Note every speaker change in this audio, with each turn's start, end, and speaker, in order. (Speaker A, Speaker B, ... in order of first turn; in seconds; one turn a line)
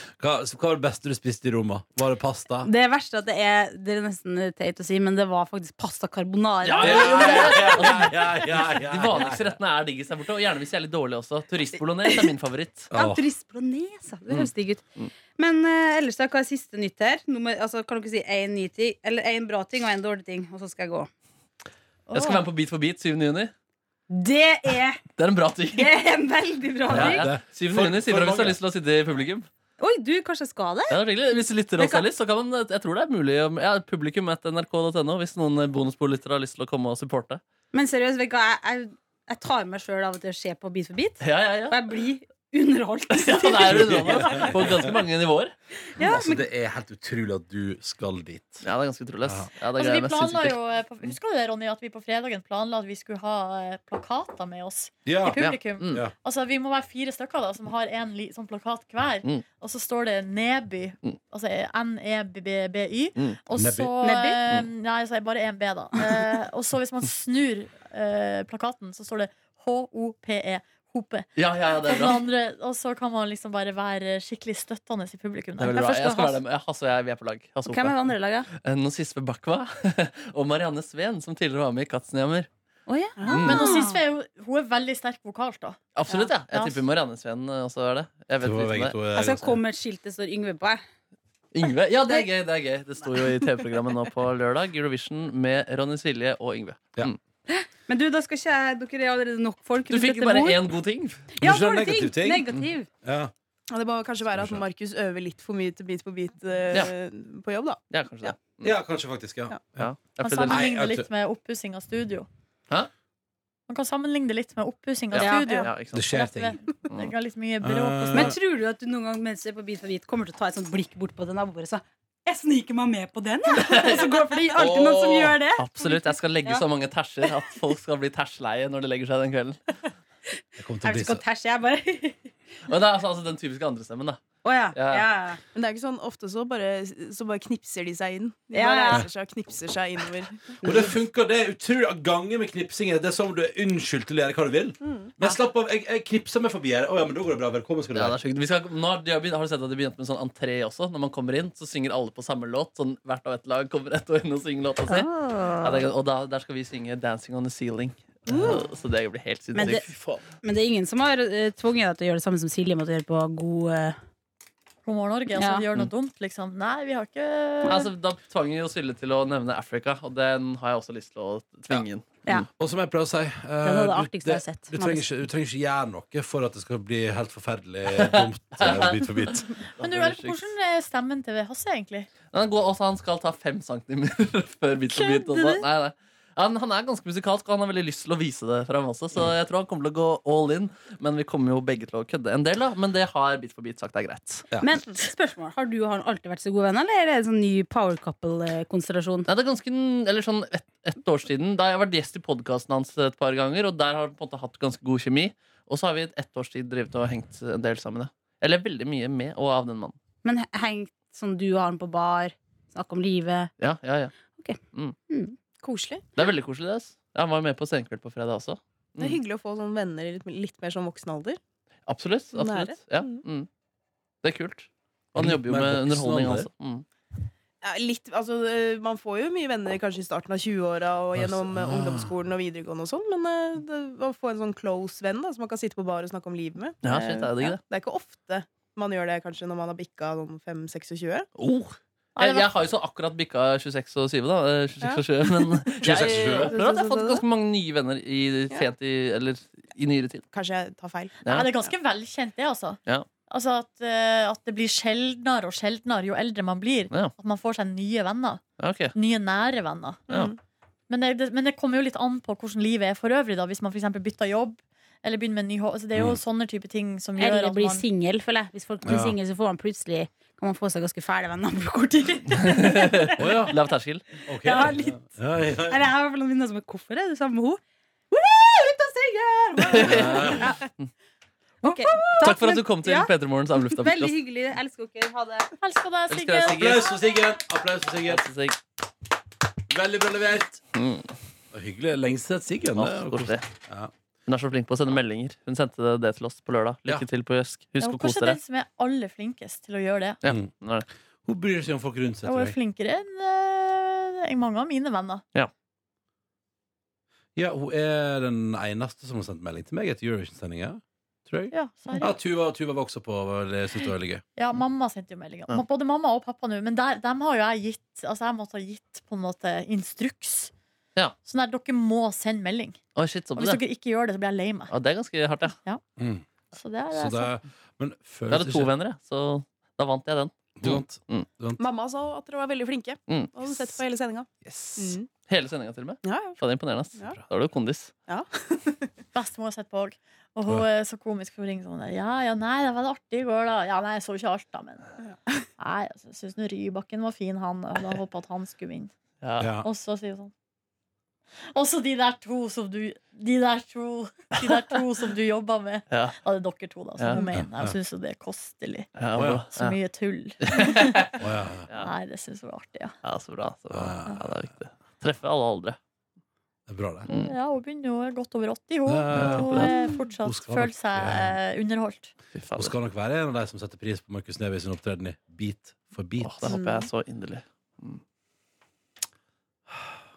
Speaker A: 0.2-2.7
Speaker B: 2.6-8.1
Speaker C: 6.6-12.9
Speaker A: 6.8-9.5
Speaker A: 12.9-13.2
Speaker B: 12.9-14.8
Speaker C: 14.3-15.1
Speaker B: 15.4-21.1
Speaker D: 22.1-22.4
Speaker C: 22.1-23.5
Speaker B: 24.1-25.0
Speaker C: 25.2-25.9
Speaker B: 25.7-27.3
Speaker A: 26.9-28.6
Speaker C: 26.9-29.5
Speaker B: 29.8-31.0
Speaker C: 30.9-37.4
Speaker B: 31.8-32.0
Speaker B: 37.7-44.9
Speaker C: 41.2-41.9
Speaker C: 43.1-45.5
Speaker A: 43.7-44.9
Speaker B: 46.0-46.4
Speaker A: 46.0-48.6
Speaker C: 48.6-50.5
Speaker D: 49.7-71.3
Speaker A: 55.0-56.1
Speaker C: 55.4-56.0
Speaker A: 63.6-63.9
Speaker B: 64.0-64.4
Speaker C: 71.4-72.2
Speaker D: 71.8-76.2
Speaker C: 75.6-82.5
Speaker B: 75.8-76.3
Speaker B: 77.7-78.5
Speaker B: 82.9-84.0
Speaker E: 83.2-83.5
Speaker C: 83.3-83.7
Speaker D: 83.3-85.8
Speaker C: 85.9-89.0
Speaker D: 86.5-86.8
Speaker A: 88.4-89.6
Speaker B: 89.1-90.8
Speaker C: 91.5-97.2
Speaker B: 97.5-100.6
Speaker C: 99.9-101.3
Speaker B: 101.3-102.9
Speaker A: 101.4-102.5
Speaker A: 103.0-103.3
Speaker E: 103.7-108.3
Speaker A: 104.3-104.6
Speaker C: 107.9-108.7
Speaker A: 108.6-109.9
Speaker C: 109.8-110.7
Speaker D: 110.2-112.3
Speaker A: 110.4-111.1
Speaker D: 113.7-118.3
Speaker C: 115.1-116.1
Speaker B: 115.2-115.6
Speaker A: 115.9-116.6
Speaker A: 117.6-118.4
Speaker B: 118.1-126.6
Speaker C: 123.5-124.6
Speaker A: 124.5-125.3
Speaker C: 125.6-129.6
Speaker A: 130.6-131.2
Speaker B: 130.8-132.3
Speaker C: 132.7-135.1
Speaker B: 134.4-135.4
Speaker E: 135.5-140.7
Speaker B: 138.5-139.1
Speaker B: 140.6-140.9
Speaker A: 140.6-148.2
Speaker E: 144.8-145.1
Speaker C: 147.9-160.0
Speaker B: 154.9-155.9
Speaker B: 158.3-158.6
Speaker B: 159.5-159.9
Speaker B: 160.4-164.0
Speaker D: 164.8-167.9
Speaker B: 165.4-165.7
Speaker C: 167.6-172.2
Speaker A: 172.5-179.5
Speaker B: 173.6-175.1
Speaker C: 177.9-180.4
Speaker D: 179.8-182.1
Speaker C: 182.3-194.5
Speaker B: 184.9-185.6
Speaker B: 194.6-199.3
Speaker C: 199.3-210.0
Speaker B: 210.2-213.5
Speaker C: 213.6-214.1
Speaker B: 214.3-214.6
Speaker B: 215.1-215.4
Speaker E: 215.6-216.0
Speaker C: 216.2-219.2
Speaker E: 219.0-221.4
Speaker C: 221.9-223.5
Speaker E: 222.3-223.2
Speaker C: 224.2-226.8
Speaker A: 225.1-226.5
Speaker E: 227.6-241.3
Speaker A: 231.1-232.1
Speaker C: 236.8-237.6
Speaker C: 241.4-250.2
Speaker D: 242.2-242.5
Speaker E: 244.8-247.2
Speaker A: 245.8-246.5
Speaker E: 250.3-251.2
Speaker C: 251.2-251.5
Speaker D: 251.2-258.4
Speaker C: 258.6-258.9
Speaker D: 258.9-260.0
Speaker E: 260.1-260.4
Speaker D: 260.9-267.8
Speaker B: 267.2-273.4
Speaker A: 268.8-269.1
Speaker C: 272.4-274.2
Speaker A: 273.2-273.5
Speaker A: 274.3-275.9
Speaker B: 274.4-275.1
Speaker B: 275.6-277.6
Speaker B: 278.1-280.7
Speaker C: 279.6-280.9
Speaker A: 279.8-280.5
Speaker B: 281.6-285.5
Speaker C: 282.2-284.2
Speaker D: 285.6-286.9
Speaker C: 286.1-286.9
Speaker A: 286.4-288.3
Speaker C: 288.1-288.6
Speaker A: 289.7-290.6
Speaker C: 290.7-291.1
Speaker A: 291.5-293.9
Speaker C: 292.8-293.5
Speaker C: 294.3-298.4
Speaker D: 297.8-300.2
Speaker C: 300.2-300.9
Speaker A: 301.2-302.6
Speaker D: 302.2-305.2
Speaker A: 307.4-314.2
Speaker D: 311.5-312.1
Speaker D: 314.4-320.5
Speaker D: 321.2-322.8
Speaker C: 322.9-323.6
Speaker D: 323.4-324.7
Speaker C: 324.7-325.6
Speaker A: 326.0-326.2
Speaker D: 326.5-327.3
Speaker A: 326.9-328.7
Speaker C: 328.3-331.3
Speaker A: 330.6-331.6
Speaker E: 331.6-335.1
Speaker C: 333.1-333.7
Speaker C: 334.4-337.9
Speaker E: 336.0-336.4
Speaker E: 338.1-338.9
Speaker D: 339.1-344.9
Speaker D: 345.6-348.9
Speaker C: 349.2-349.5
Speaker A: 349.4-349.7
Speaker D: 349.6-350.3
Speaker D: 351.5-358.9
Speaker C: 355.9-356.2
Speaker C: 357.0-357.2
Speaker A: 357.3-357.7
Speaker C: 359.0-359.8
Speaker A: 359.1-359.4
Speaker D: 359.5-361.1
Speaker C: 360.4-361.1
Speaker A: 361.2-361.7
Speaker D: 361.7-362.9
Speaker C: 363.0-365.8
Speaker A: 363.7-364.4
Speaker A: 366.7-367.1
Speaker D: 367.1-372.1
Speaker C: 367.1-367.4
Speaker A: 368.9-371.4
Speaker C: 369.1-369.7
Speaker C: 372.4-372.7
Speaker A: 372.5-376.6
Speaker C: 376.2-378.0
Speaker E: 376.5-376.9
Speaker A: 379.7-380.0